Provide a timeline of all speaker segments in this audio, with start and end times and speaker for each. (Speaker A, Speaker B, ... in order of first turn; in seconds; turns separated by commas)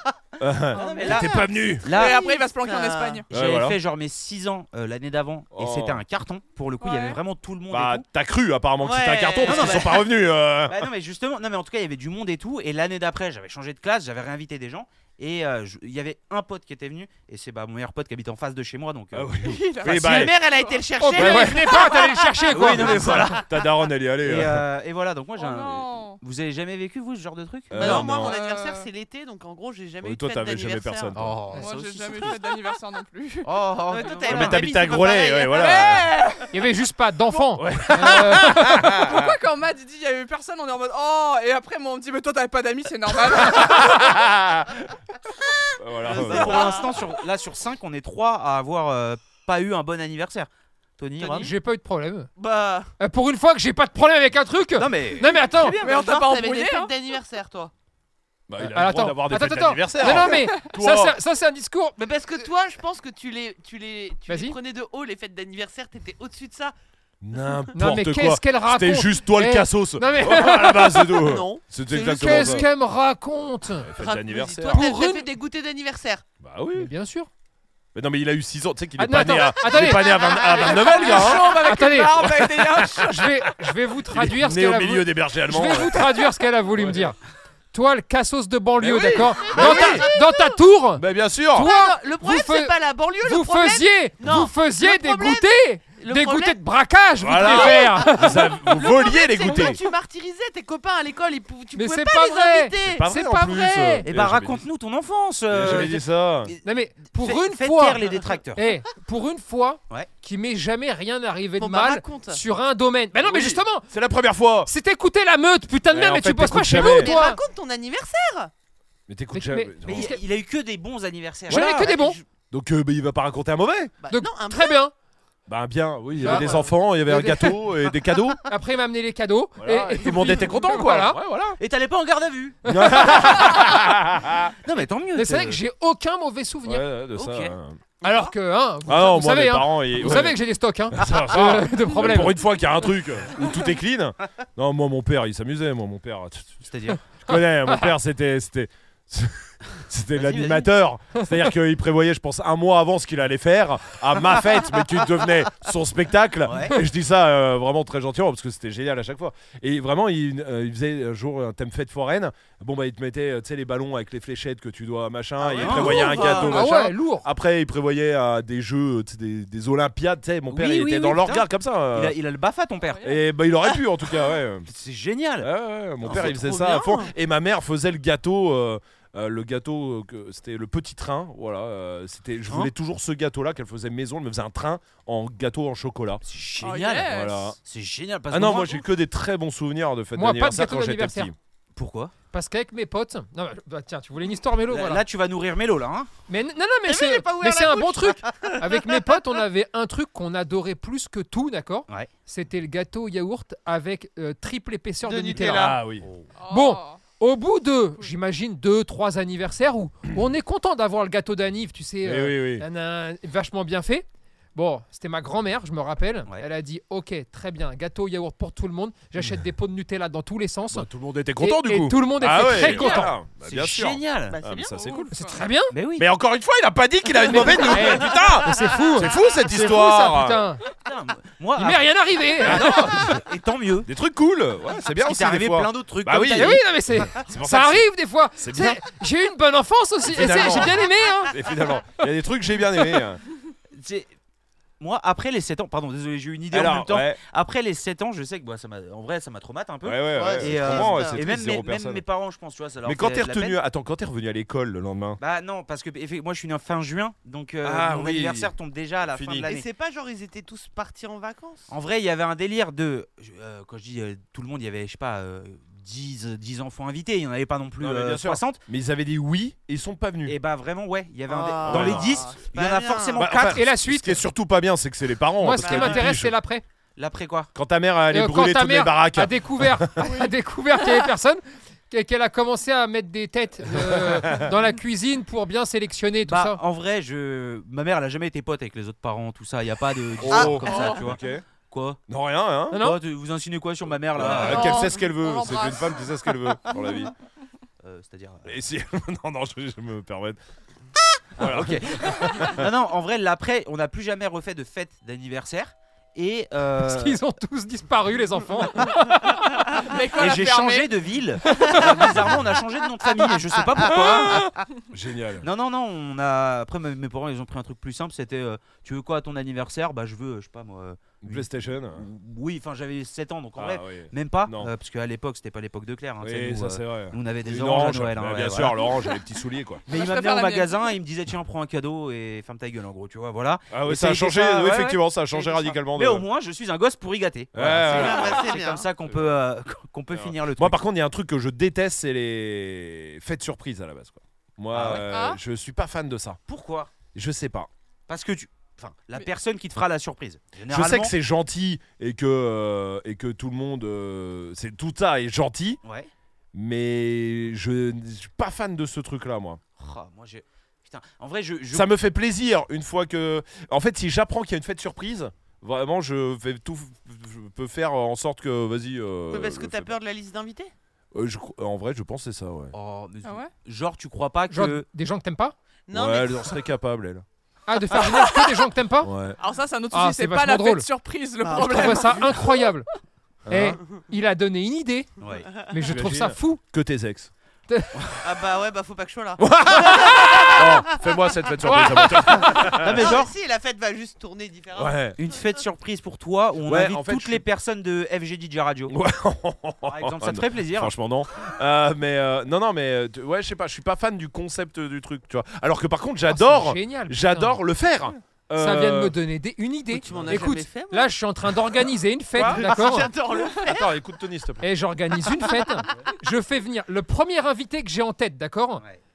Speaker A: 0.4-1.9, Speaker B: 0.7-2.2, Speaker C: 0.7-3.2, Speaker D: 1.9-3.2, Speaker B: 3.3-8.0, Speaker A: 3.3-3.8, Speaker A: 5.5-6.0, Speaker D: 6.8-7.2, Speaker A: 7.7-10.9, Speaker C: 8.8-10.0, Speaker B: 9.4-10.1, Speaker B: 10.7-19.3, Speaker A: 19.1-20.3, Speaker D: 19.4-20.8, Speaker C: 19.9-22.4, Speaker E: 21.0-23.3, Speaker A: 21.1-21.7, Speaker B: 22.5-23.5, Speaker A: 22.6-24.6, Speaker B: 24.2-28.1, Speaker D: 25.4-26.2, Speaker A: 27.7-28.4, Speaker C: 27.8-31.1, Speaker D: 28.1-28.9, Speaker A: 30.0-31.4, Speaker B: 31.1-32.4, Speaker D: 31.5-33.5, Speaker B: 33.4-34.7, Speaker C: 33.9-36.0, Speaker A: 34.3-36.1, Speaker D: 35.5-36.5, Speaker E: 36.5-38.9, Speaker A: 37.6-39.3, Speaker D: 38.9-43.9, Speaker A: 43.5-44.9, Speaker A: 45.8-46.8, Speaker C: 46.0-47.1, Speaker B: 46.1-51.5, Speaker C: 51.2-51.5, Speaker E: 51.4-52.3, Speaker C: 52.4-52.9, Speaker E: 53.0-55.8, Speaker B: 54.8-55.9, Speaker C: 55.7-57.7, Speaker D: 55.8-56.9, Speaker A: 58.5-61.2, Speaker E: 58.6-62.0, Speaker C: 62.0-66.7, Speaker E: 64.3-64.6, Speaker A: 67.2-72.7, Speaker E: 67.8-71.2, Speaker C: 71.2-72.7, Speaker E: 71.9-73.9, Speaker A: 73.8-74.8, Speaker C: 74.0-76.2, Speaker E: 74.7-75.2, Speaker A: 76.4-76.9, Speaker E: 76.8-77.3, Speaker A: 77.9-83.3, Speaker E: 79.0-80.1, Speaker C: 80.2-80.8, Speaker D: 80.5-83.2, Speaker E: 81.3-82.2, Speaker E: 83.0-87.2, Speaker A: 84.1-86.2, Speaker A: 86.7-87.1, Speaker E: 87.7-98.4, Speaker A: 88.8-90.1, Speaker C: 89.5-90.5, Speaker A: 91.0-91.7, Speaker C: 91.5-96.6, Speaker A: 97.2-99.8, Speaker C: 97.3-103.0, Speaker E: 101.7-104.0, Speaker A: 102.8-104.6, Speaker B: 104.0-108.6, Speaker A: 105.5-106.5, Speaker E: 106.6-108.0, Speaker E: 108.5-113.9, Speaker C: 111.6-112.4, Speaker A: 113.2-114.7, Speaker E: 114.7-117.4, Speaker A: 115.9-117.1, Speaker C: 116.7-118.5, Speaker A: 119.1-120.2, Speaker E: 119.3-120.2, Speaker B: 119.8-122.2, Speaker A: 121.5-121.9, Speaker E: 121.5-122.2, Speaker A: 122.5-123.9, Speaker C: 124.0-124.8, Speaker E: 124.1-124.9, Speaker A: 125.5-128.4, Speaker E: 126.2-127.7, Speaker C: 126.2-126.7, Speaker E: 128.5-131.2, Speaker A: 129.6-131.6, Speaker B: 131.6-132.6, Speaker E: 132.6-133.2, Speaker A: 132.6-134.5, Speaker B: 134.6-135.6, Speaker E: 135.1-136.9, Speaker A: 136.6-137.8, Speaker B: 137.2-137.5, Speaker E: 138.0-142.4, Speaker A: 138.8-140.4, Speaker A: 140.9-146.6, Speaker B: 146.7-147.0, Speaker A: 147.2-172.2, Speaker E: 147.3-147.9, Speaker B: 150.2-150.7, Speaker B: 156.4-156.8, Speaker B: 165.4-166.6, Speaker C: 165.6-166.4, Speaker E: 166.2-167.3, Speaker B: 170.5-173.0, Speaker D: 172.9-173.2, Speaker A: 173.0-174.7, Speaker B: 174.7-175.5, Speaker A: 175.4-186.2, Speaker B: 176.0-176.3, Speaker C: 176.1-177.1, Speaker B: 186.2-188.8, Speaker D: 186.6-187.5, Speaker A: 187.1-187.6, Speaker A: 188.3-191.3, Speaker E: 190.1-191.3, Speaker B: 191.8-192.1, Speaker E: 192.3-195.0, Speaker B: 194.7-196.1, Speaker E: 196.3-205.7, Speaker C: 196.8-199.0, Speaker C: 205.0-205.8, Speaker A: 205.5-206.1, Speaker D: 206.4-207.0, Speaker E: 206.5-220.9, Speaker A: 212.0-212.6, Speaker A: 220.7-225.1, Speaker E: 221.4-223.1, Speaker B: 222.5-224.4, Speaker C: 224.3-224.8, Speaker D: 224.8-225.4, Speaker E: 225.1-225.7, Speaker B: 225.7-226.1, Speaker A: 226.0-230.4, Speaker E: 227.2-230.6, Speaker B: 230.8-231.9, Speaker E: 231.6-233.1, Speaker A: 232.4-233.2, Speaker B: 232.4-233.9, Speaker A: 233.8-237.8, Speaker B: 235.0-236.6, Speaker E: 236.3-241.3, Speaker A: 238.4-238.8, Speaker A: 240.1-243.2, Speaker B: 243.7-244.1, Speaker B: 244.8-253.6, Speaker A: 246.5-247.2, Speaker A: 249.8-252.0, Speaker C: 250.1-251.2, Speaker A: 252.8-255.2, Speaker B: 255.2-259.6, Speaker A: 257.6-258.5, Speaker A: 259.1-259.5, Speaker C: 259.4-261.7, Speaker B: 261.7-268.6, Speaker A: 267.8-270.4, Speaker B: 270.2-273.6, Speaker C: 271.3-273.2, Speaker A: 271.6-272.2, Speaker A: 273.1-276.3, Speaker E: 273.5-274.2, Speaker E: 275.4-276.6, Speaker C: 275.6-276.1, Speaker B: 277.0-277.5, Speaker A: 277.5-280.1, Speaker E: 278.1-286.6, Speaker D: 280.0-280.3, Speaker A: 283.7-284.5, Speaker B: 286.2-292.0, Speaker A: 290.2-291.4, Speaker C: 290.3-290.8, Speaker D: 290.6-291.0, Speaker A: 292.1-292.8, Speaker E: 292.7-293.0, Speaker B: 292.7-294.8, Speaker A: 294.1-297.1, Speaker D: 294.2-296.0, Speaker D: 296.7-297.1, Speaker B: 297.8-298.6, Speaker A: 298.4-300.4, Speaker A: 301.4-302.7, Speaker B: 301.4-307.2, Speaker E: 306.8-309.7, Speaker D: 309.8-310.9, Speaker B: 310.2-314.4, Speaker E: 311.5-311.8, Speaker A: 314.9-315.5, Speaker B: 315.4-328.9, Speaker A: 321.2-322.0, Speaker A: 323.6-324.7, Speaker A: 326.2-329.8, Speaker B: 329.9-340.8, Speaker D: 329.9-330.9, Speaker A: 333.7-336.2, Speaker A: 337.5-339.3, Speaker C: 337.9-338.9, Speaker A: 340.1-346.4, Speaker B: 344.7-345.1, Speaker D: 345.1-345.4, Speaker B: 346.5-346.9, Speaker A: 347.1-347.7, Speaker B: 348.1-351.1, Speaker A: 350.7-355.8, Speaker B: 355.8-356.1, Speaker A: 356.5-359.6, Speaker B: 359.8-361.9, Speaker A: 361.7-369.9, Speaker C: 369.3-370.7, Speaker A: 371.1-372.7, Speaker B: 372.7-374.9, Speaker D: 373.2-373.5, Speaker E: 374.5-375.5, Speaker C: 375.9-376.6, Speaker A: 375.9-377.2, Speaker E: 377.7-379.1, Speaker A: 379.0-379.4, Speaker D: 379.4-382.3, Speaker E: 379.9-380.9, Speaker C: 381.4-382.4, Speaker E: 381.5-382.9, Speaker A: 383.4-383.8, Speaker E: 383.5-385.1, Speaker C: 383.8-384.0, Speaker B: 385.2-385.5, Speaker C: 385.2-385.7, Speaker E: 385.7-386.6, Speaker A: 385.9-387.3, Speaker C: 388.2-390.8, Speaker A: 389.4-393.1, Speaker E: 391.6-392.3, Speaker C: 392.3-395.6, Speaker B: 392.8-393.3, Speaker A: 394.7-395.2, Speaker B: 395.2-398.9, Speaker A: 396.6-397.4, Speaker A: 398.9-409.1, Speaker B: 399.8-400.9, Speaker E: 406.3-407.6, Speaker E: 408.6-413.1, Speaker C: 409.9-411.8, Speaker A: 410.1-410.4, Speaker A: 412.4-414.6, Speaker C: 412.4-413.9, Speaker E: 414.6-418.8